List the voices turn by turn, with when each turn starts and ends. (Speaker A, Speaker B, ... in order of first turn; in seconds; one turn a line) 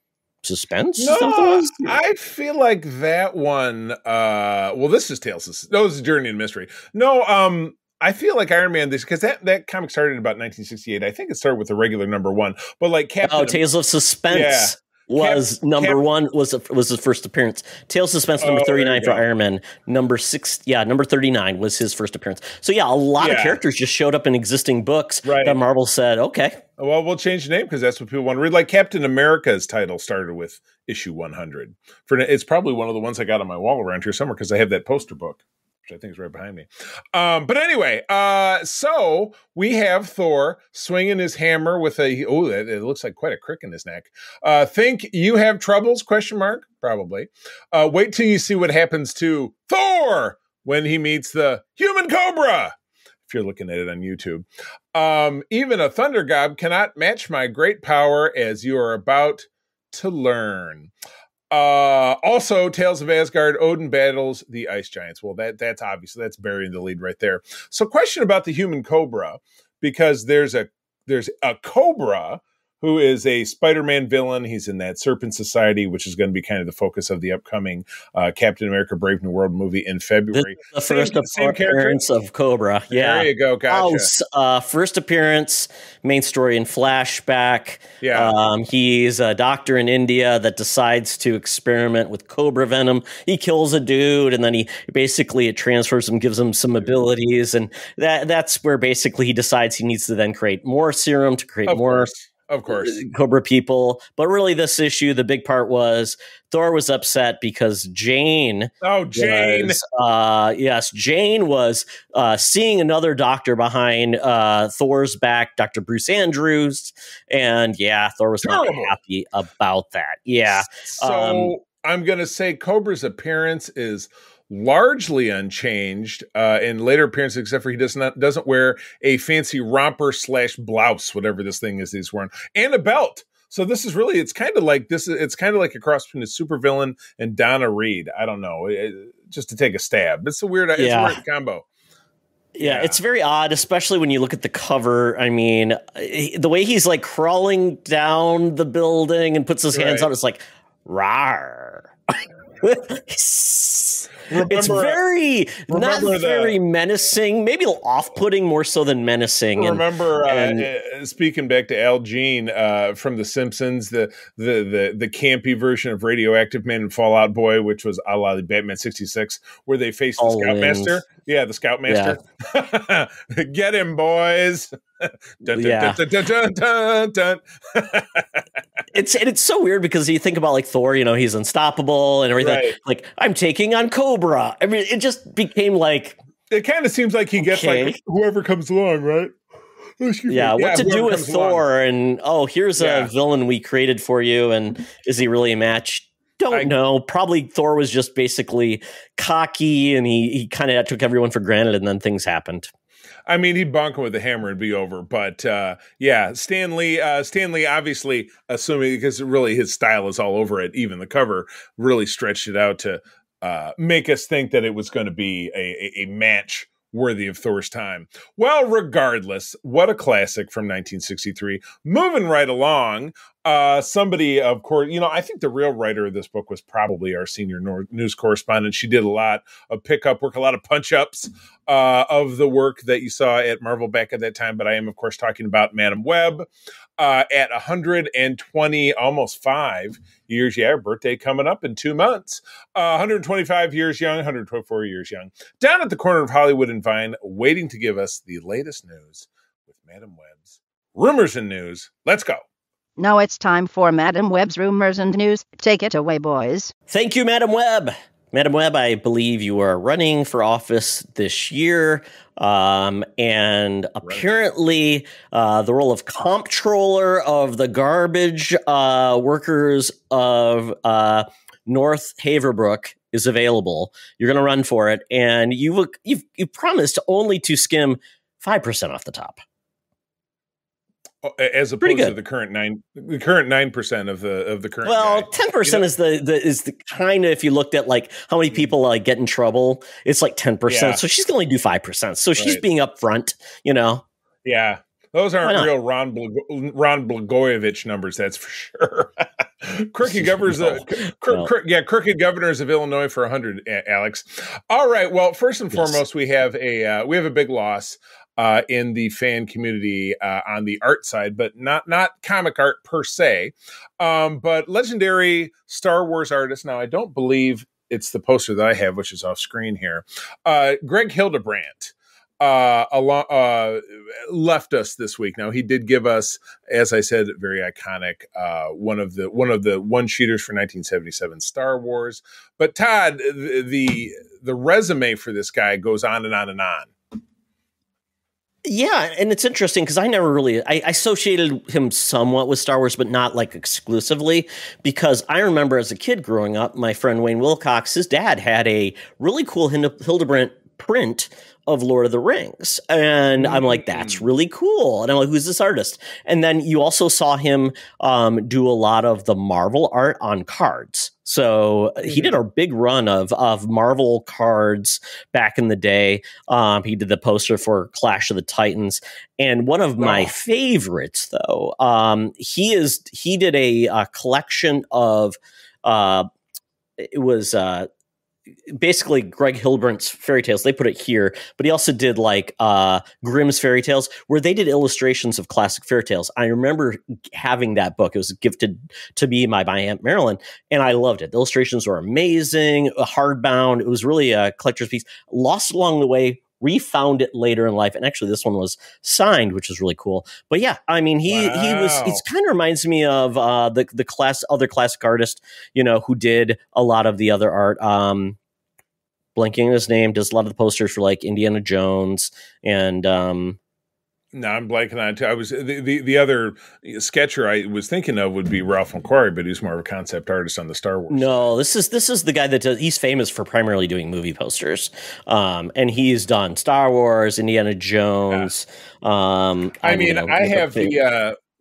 Speaker A: 0.4-2.0
Speaker B: 1.0-13.6
Speaker A: 13.2-26.6
Speaker B: 14.3-16.0
Speaker B: 18.4-19.2
Speaker B: 23.2-23.6
Speaker B: 25.2-25.6
Speaker B: 26.8-52.7
Speaker B: 53.3-60.9
Speaker B: 61.5-82.0
Speaker A: 80.3-102.1
Speaker B: 82.9-84.1
Speaker B: 88.0-88.3
Speaker B: 101.7-103.0
Speaker A: 102.7-121.5
Speaker B: 108.8-109.8
Speaker B: 118.4-119.0
Speaker B: 120.4-141.7
Speaker A: 140.8-141.2
Speaker A: 142.5-160.7
Speaker B: 142.6-143.0
Speaker B: 149.7-150.1
Speaker B: 154.3-155.0
Speaker B: 155.7-156.6
Speaker B: 159.6-178.4
Speaker A: 170.2-171.0
Speaker A: 171.9-172.2
Speaker A: 175.5-176.0
Speaker A: 178.9-186.2
Speaker B: 182.4-182.8
Speaker B: 186.5-189.3
Speaker A: 187.4-188.0
Speaker B: 190.0-191.7
Speaker A: 190.3-202.7
Speaker B: 192.8-193.1
Speaker B: 203.2-252.4
Speaker C: 253.0-256.7
Speaker A: 256.9-279.4
Speaker B: 281.2-285.8
Speaker A: 281.8-282.1
Speaker A: 284.8-294.0
Speaker B: 290.7-291.0
Speaker B: 292.4-292.6
Speaker B: 294.4-336.9
Speaker A: 295.4-295.7
Speaker A: 300.0-301.5
Speaker A: 305.7-306.0
Speaker A: 338.6-376.3
Speaker B: 353.3-354.2
Speaker B: 362.1-362.4
Speaker B: 370.0-370.3
Speaker A: 377.0-377.9
Speaker A: 378.7-408.4
Speaker B: 401.3-402.2
Speaker A: 409.4-413.6
Speaker B: 414.3-421.5
Speaker A: 421.1-431.0
Speaker B: 429.8-431.4